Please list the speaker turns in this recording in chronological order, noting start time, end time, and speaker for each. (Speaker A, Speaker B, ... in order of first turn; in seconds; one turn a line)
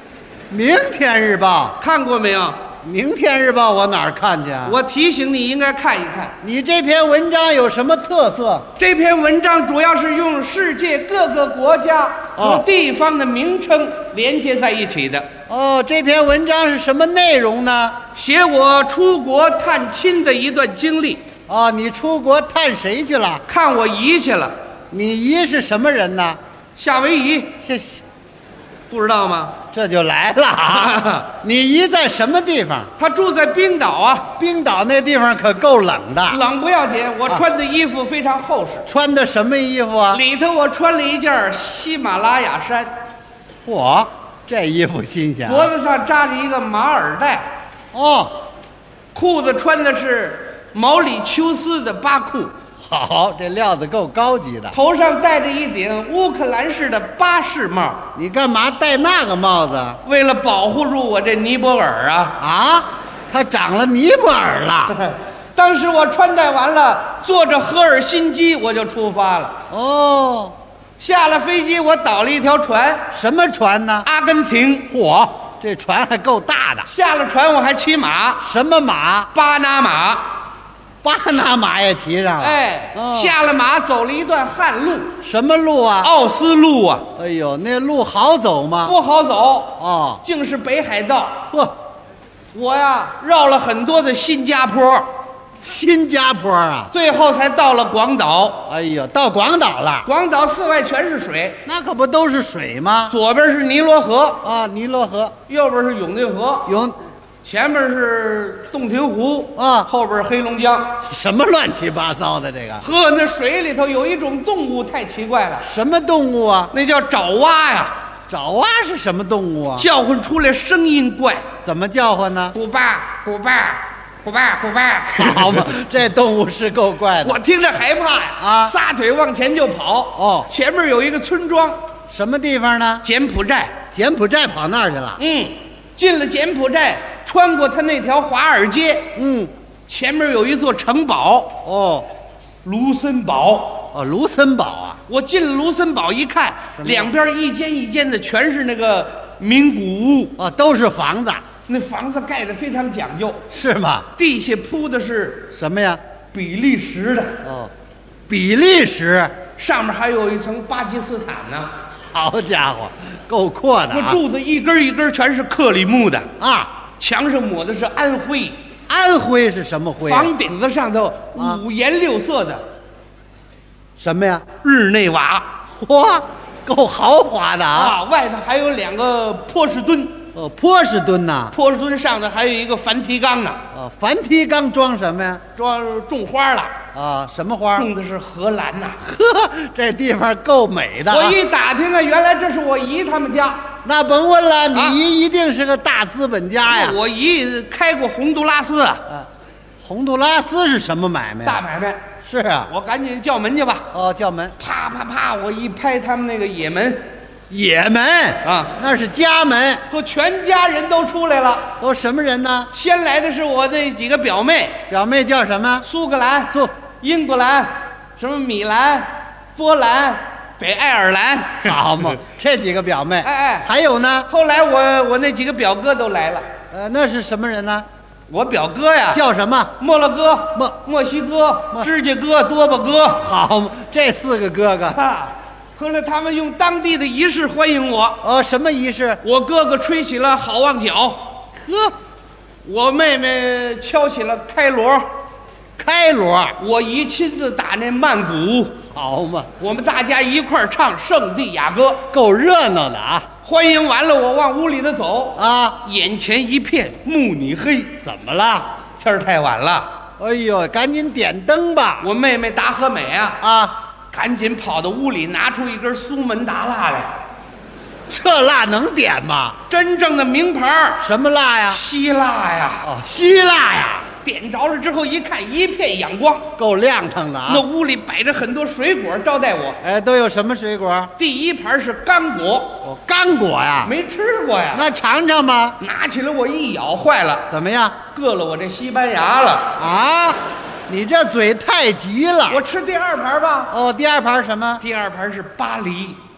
Speaker A: 0.5-1.8
Speaker B: 1.8-2.6
Speaker A: 2.8-4.8
Speaker B: 4.6-6.3
Speaker A: 6.4-8.7
Speaker B: 8.8-15.3
Speaker A: 12.4-12.6
Speaker A: 15.5-18.0
Speaker B: 18.1-21.2
Speaker A: 21.5-23.4
Speaker B: 23.5-24.5
Speaker A: 24.9-26.4
Speaker B: 26.8-27.5
Speaker A: 27.6-28.0
Speaker B: 28.9-29.6
Speaker A: 29.7-32.9
Speaker B: 30.7-31.2
Speaker B: 33.0-34.3
Speaker A: 34.4-36.4
Speaker B: 36.3-38.9
Speaker A: 38.9-40.2
Speaker B: 40.1-42.9
Speaker A: 43.6-45.7
Speaker B: 45.5-47.5
Speaker A: 47.9-48.3
Speaker B: 49.1-52.5
Speaker A: 52.9-54.8
Speaker B: 54.7-58.0
Speaker A: 58.1-60.0
Speaker B: 60.0-62.4
Speaker A: 62.4-65.0
Speaker B: 64.9-69.6
Speaker A: 69.7-70.5
Speaker B: 71.0-73.0
Speaker A: 73.1-74.1
Speaker B: 74.0-74.9
Speaker A: 74.9-76.9
Speaker B: 76.9-78.4
Speaker A: 78.4-79.3
Speaker B: 79.3-80.3
Speaker A: 81.0-83.3
Speaker B: 82.4-85.1
Speaker A: 85.2-86.1
Speaker B: 86.0-87.0
Speaker A: 87.2-89.0
Speaker B: 88.8-91.4
Speaker A: 89.8-90.2
Speaker A: 91.5-91.7
Speaker B: 92.5-95.1
Speaker A: 95.6-96.9
Speaker B: 96.9-98.6
Speaker A: 98.7-100.1
Speaker B: 100.0-101.6
Speaker A: 101.7-103.1
Speaker B: 103.1-104.4
Speaker A: 104.4-105.3
Speaker B: 105.5-106.7
Speaker A: 106.7-107.0
Speaker B: 107.4-111.0
Speaker A: 109.6-109.9
Speaker A: 111.0-112.8
Speaker B: 112.8-115.6
Speaker A: 115.6-116.7
Speaker B: 116.7-118.0
Speaker A: 118.3-119.9
Speaker B: 119.8-121.5
Speaker A: 121.6-122.5
Speaker B: 122.5-125.7
Speaker A: 125.1-127.4
Speaker B: 127.2-131.8
Speaker A: 128.4-128.7
Speaker A: 130.2-130.5
Speaker A: 132.1-133.0
Speaker B: 133.0-133.8
Speaker A: 133.9-135.2
Speaker B: 135.2-139.1
Speaker A: 139.1-139.5
Speaker B: 139.9-141.6
Speaker A: 141.6-142.1
Speaker B: 142.6-143.9
Speaker A: 143.9-145.0
Speaker B: 145.1-150.3
Speaker A: 146.8-147.1
Speaker A: 150.4-151.4
Speaker B: 151.7-153.4
Speaker A: 153.5-154.1
Speaker B: 154.2-155.5
Speaker A: 155.5-156.0
Speaker B: 156.3-157.4
Speaker A: 157.4-157.7
Speaker A: 158.3-159.4
Speaker B: 159.6-161.7
Speaker A: 162.1-164.2
Speaker B: 163.9-166.3
Speaker A: 166.4-166.7
Speaker B: 167.0-168.5
Speaker A: 168.9-170.3
Speaker B: 170.0-172.6
Speaker A: 171.3-171.6
Speaker A: 174.0-174.4
Speaker B: 174.6-175.5
Speaker A: 175.8-178.0
Speaker B: 177.7-180.2
Speaker A: 180.3-181.5
Speaker B: 181.5-183.6
Speaker A: 183.7-185.4
Speaker B: 185.6-186.7
Speaker A: 186.9-187.9
Speaker B: 187.7-189.0
Speaker A: 189.0-191.4
Speaker B: 191.1-193.7
Speaker A: 193.8-197.0
Speaker B: 194.7-195.0
Speaker B: 196.6-199.0
Speaker A: 199.8-201.6
Speaker B: 201.4-202.0
Speaker A: 202.2-202.7
Speaker B: 202.7-203.8
Speaker A: 203.9-204.6
Speaker B: 204.6-207.0
Speaker A: 207.5-209.8
Speaker B: 208.4-208.7
Speaker B: 209.9-211.7
Speaker A: 211.8-212.7
Speaker B: 212.7-214.8
Speaker A: 214.9-215.8
Speaker B: 215.8-221.8
Speaker A: 221.6-224.3
Speaker B: 223.2-223.7
Speaker B: 224.3-226.4
Speaker A: 226.7-227.8
Speaker B: 228.3-229.2
Speaker A: 229.1-229.7
Speaker B: 229.8-233.3
Speaker A: 233.2-235.0
Speaker B: 234.9-238.2
Speaker A: 238.2-239.2
Speaker B: 239.2-241.3
Speaker A: 241.6-241.9
Speaker B: 242.6-245.1
Speaker A: 245.8-246.6
Speaker B: 246.6-248.8
Speaker A: 248.9-249.5
Speaker B: 249.6-252.0
Speaker A: 252.1-253.3
Speaker B: 253.4-258.0
Speaker A: 255.4-255.8
Speaker A: 258.0-258.7
Speaker B: 258.9-259.9
Speaker A: 260.2-262.1
Speaker B: 262.0-263.4
Speaker A: 263.4-263.7
Speaker B: 264.1-267.1
Speaker A: 268.1-269.6
Speaker B: 269.7-271.0
Speaker A: 271.0-271.8
Speaker B: 271.7-272.9
Speaker A: 272.8-274.1
Speaker B: 274.2-276.5
Speaker A: 276.6-277.6
Speaker B: 277.5-279.8
Speaker A: 279.8-281.1
Speaker B: 281.2-282.8
Speaker A: 282.8-283.9
Speaker B: 283.8-284.9
Speaker A: 284.7-285.8
Speaker B: 285.8-287.4
Speaker A: 287.5-288.0
Speaker B: 288.1-289.7
Speaker A: 289.8-292.6
Speaker B: 292.5-293.7
Speaker A: 293.7-294.8
Speaker B: 294.8-296.2